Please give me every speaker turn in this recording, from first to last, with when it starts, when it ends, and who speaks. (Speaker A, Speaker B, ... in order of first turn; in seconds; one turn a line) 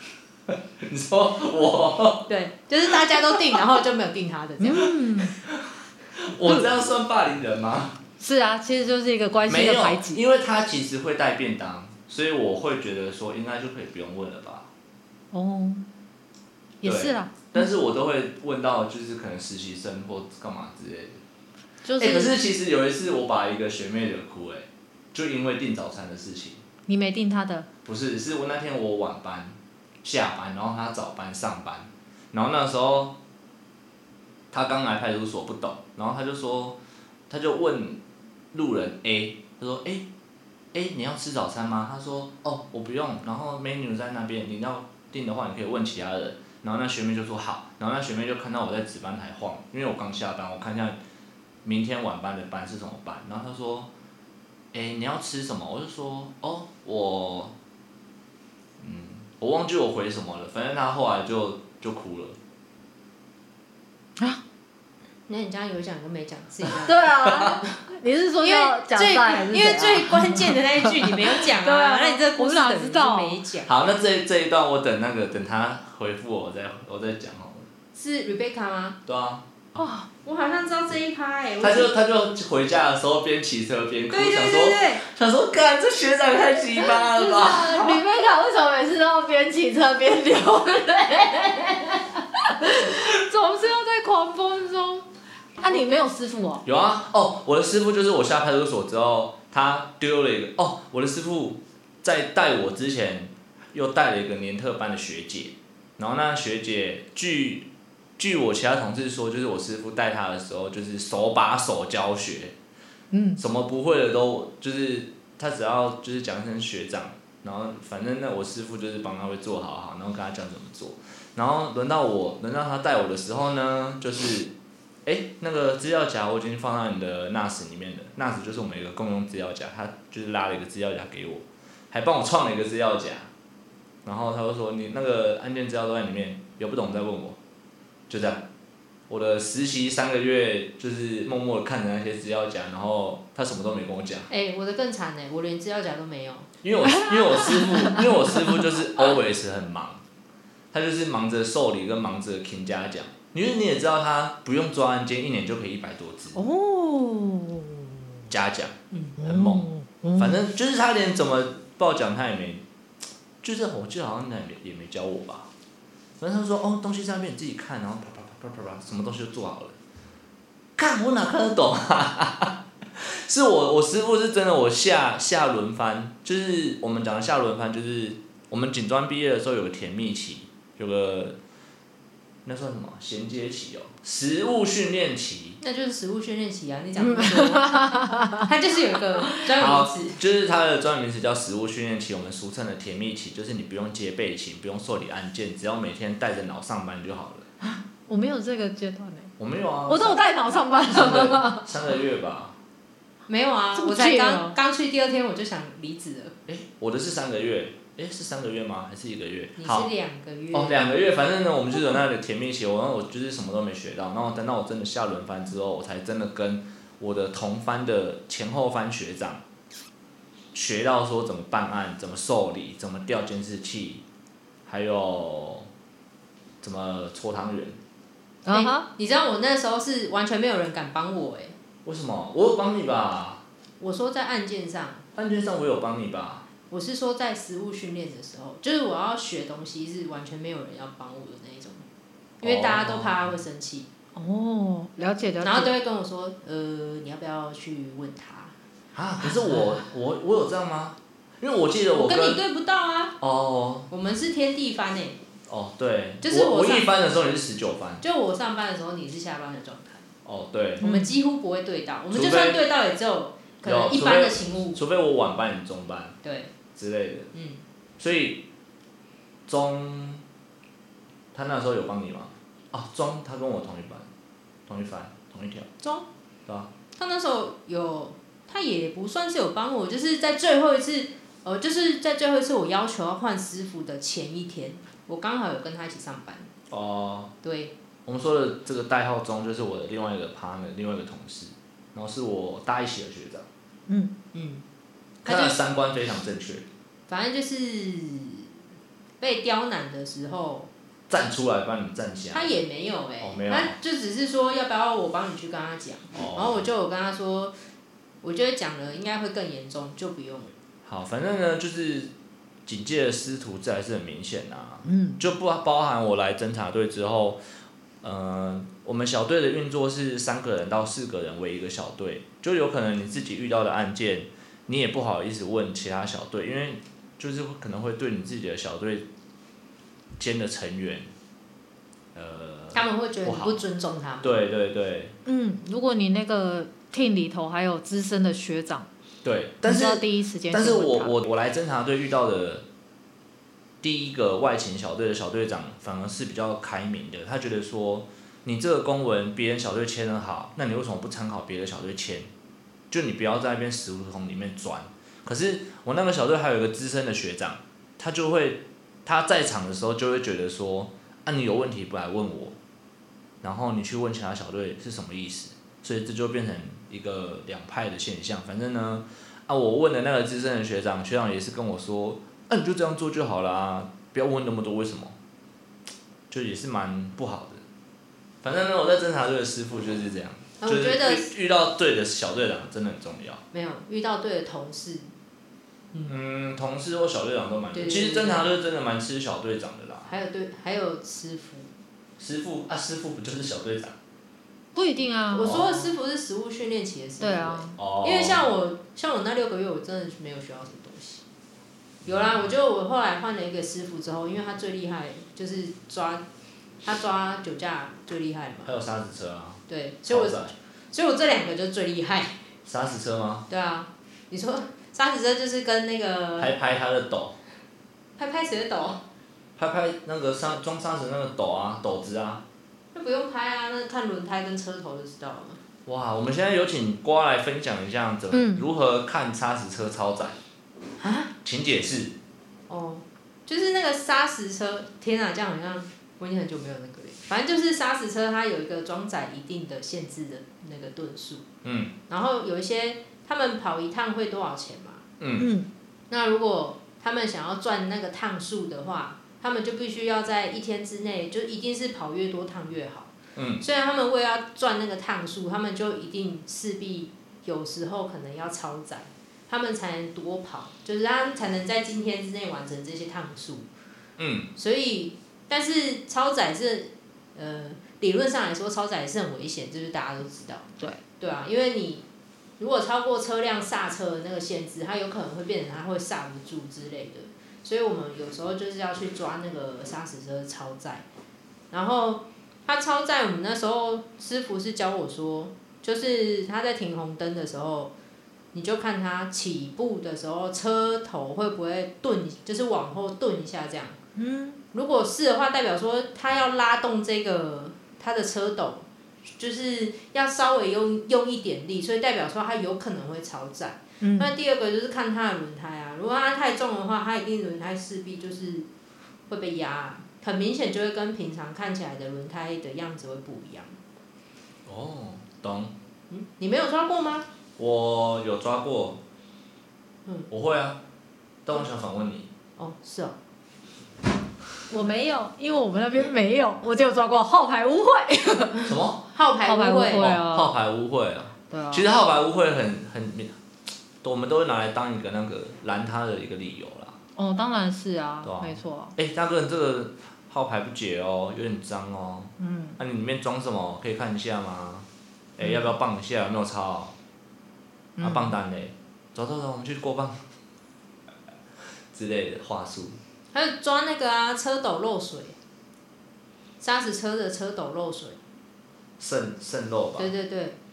Speaker A: 0.5-2.3
Speaker B: 2.3-4.9
Speaker A: 2.9-3.6
Speaker C: 4.6-5.4
Speaker A: 5.4-8.0
Speaker C: 8.2-10.2
Speaker A: 9.5-14.7
Speaker C: 15.3-15.9
Speaker C: 16.8-17.7
Speaker A: 16.8-21.2
Speaker C: 21.8-22.3
Speaker A: 22.0-26.6
Speaker C: 26.9-27.7
Speaker A: 27.8-33.2
Speaker A: 34.5-36.8
Speaker A: 37.3-38.0
Speaker A: 38.5-40.1
Speaker A: 40.7-51.0
Speaker A: 51.6-53.9
Speaker A: 54.7-57.5
Speaker A: 58.8-62.4
Speaker B: 65.3-67.3
Speaker C: 66.8-73.4
Speaker B: 68.4-73.7
Speaker A: 73.6-77.7
Speaker B: 77.9-79.0
Speaker A: 79.0-79.8
Speaker C: 79.8-80.1
Speaker B: 80.2-81.9
Speaker A: 81.6-88.0
Speaker B: 84.1-85.0
Speaker C: 86.8-95.1
Speaker C: 95.6-96.6
Speaker A: 96.6-112.5
Speaker C: 113.1-113.4
Speaker A: 113.4-124.5
Speaker A: 125.0-133.3
Speaker A: 134.0-137.4
Speaker A: 138.1-138.4
Speaker A: 139.1-144.3
Speaker B: 144.3-146.5
Speaker A: 146.6-150.0
Speaker C: 146.8-148.6
Speaker A: 150.7-156.4
Speaker C: 156.3-157.8
Speaker A: 158.3-162.6
Speaker C: 159.2-160.4
Speaker A: 163.4-165.5
Speaker A: 166.2-169.8
Speaker A: 170.8-181.4
Speaker A: 182.4-185.6
Speaker B: 185.6-190.2
Speaker C: 187.0-188.4
Speaker A: 189.6-197.4
Speaker C: 197.7-199.3
Speaker A: 199.4-200.2
Speaker C: 199.9-201.7
Speaker A: 200.9-202.5
Speaker B: 203.3-206.3
Speaker C: 203.7-204.6
Speaker A: 206.5-209.9
Speaker B: 209.6-210.8
Speaker A: 210.5-219.4
Speaker A: 220.5-224.0
Speaker A: 224.7-225.7
Speaker A: 226.6-227.8
Speaker C: 228.4-228.8
Speaker B: 228.5-231.5
Speaker A: 231.8-233.4
Speaker B: 233.8-235.0
Speaker A: 235.2-236.4
Speaker B: 236.7-241.8
Speaker B: 242.4-243.9
Speaker A: 242.4-243.3
Speaker C: 244.2-245.7
Speaker B: 245.4-248.5
Speaker A: 248.9-252.4
Speaker B: 251.9-253.2
Speaker A: 253.2-253.9
Speaker B: 253.9-255.2
Speaker A: 255.5-258.0
Speaker B: 256.2-256.9
Speaker B: 258.0-260.1
Speaker A: 260.2-260.9
Speaker C: 260.8-261.1
Speaker B: 260.8-264.8
Speaker A: 262.1-262.6
Speaker A: 263.6-266.1
Speaker B: 266.2-266.5
Speaker A: 266.7-267.3
Speaker B: 267.3-267.6
Speaker A: 268.0-268.4
Speaker A: 269.5-270.2
Speaker A: 271.3-274.1
Speaker A: 274.7-275.7
Speaker B: 277.0-286.5
Speaker A: 286.7-287.3
Speaker B: 287.4-287.7
Speaker A: 288.1-293.5
Speaker C: 293.9-294.1
Speaker B: 294.3-294.6
Speaker B: 295.2-295.6
Speaker A: 295.2-296.6
Speaker B: 297.1-298.5
Speaker B: 299.2-300.7
Speaker A: 301.1-302.6
Speaker B: 302.3-307.5
Speaker A: 303.2-303.8
Speaker A: 306.1-306.6
Speaker B: 308.2-310.5
Speaker A: 310.8-312.1
Speaker A: 312.6-317.4
Speaker C: 314.8-315.2
Speaker A: 318.0-329.1
Speaker A: 330.2-331.1
Speaker A: 332.1-333.6
Speaker B: 332.7-334.4
Speaker A: 334.2-335.1
Speaker C: 335.2-338.9
Speaker A: 339.2-342.6
Speaker C: 339.6-341.1
Speaker A: 343.8-352.3
Speaker A: 352.9-362.6
Speaker A: 363.4-375.1
Speaker A: 376.3-377.6
Speaker A: 378.4-383.4
Speaker B: 380.6-381.3
Speaker B: 383.5-385.1
Speaker A: 386.1-390.1
Speaker B: 387.7-388.5
Speaker B: 390.1-391.7
Speaker A: 392.2-393.9
Speaker C: 394.7-395.5
Speaker B: 395.3-401.2
Speaker A: 395.4-395.8
Speaker C: 397.2-397.8
Speaker A: 397.8-398.4
Speaker A: 402.0-402.5
Speaker B: 402.1-406.2
Speaker B: 406.8-408.7
Speaker A: 408.6-410.5
Speaker B: 409.7-412.4
Speaker A: 412.6-413.5
Speaker B: 413.5-416.5
Speaker A: 416.4-417.4
Speaker B: 418.2-419.0
Speaker A: 419.6-422.4
Speaker B: 422.9-425.6
Speaker A: 425.9-430.4
Speaker C: 428.3-428.7
Speaker B: 431.0-431.3
Speaker A: 431.4-432.1
Speaker B: 432.7-441.4
Speaker A: 441.6-441.9
Speaker B: 442.1-445.0
Speaker A: 445.2-445.5
Speaker C: 445.4-445.7
Speaker B: 446.1-463.7
Speaker A: 453.4-453.6
Speaker A: 464.2-464.5
Speaker B: 464.6-472.0
Speaker B: 472.6-481.0
Speaker B: 481.7-487.9
Speaker B: 488.5-494.0
Speaker C: 494.1-494.6
Speaker B: 494.7-498.8
Speaker B: 499.4-508.7
Speaker C: 504.0-504.3
Speaker B: 509.3-513.8
Speaker A: 514.6-515.7
Speaker B: 516.1-517.2
Speaker A: 517.6-519.0
Speaker A: 520.3-520.8
Speaker A: 521.4-522.3
Speaker B: 522.6-523.1
Speaker C: 524.7-528.7
Speaker A: 528.7-529.0
Speaker B: 529.1-530.1
Speaker C: 529.4-530.5
Speaker A: 530.0-533.3
Speaker C: 531.5-531.9
Speaker A: 534.0-537.0
Speaker C: 537.1-538.9
Speaker A: 538.2-546.9
Speaker C: 542.4-542.8
Speaker C: 548.0-548.4
Speaker A: 548.0-550.2
Speaker A: 551.9-553.0
Speaker B: 553.3-555.4
Speaker B: 556.6-558.2
Speaker A: 559.0-560.1
Speaker B: 560.0-560.5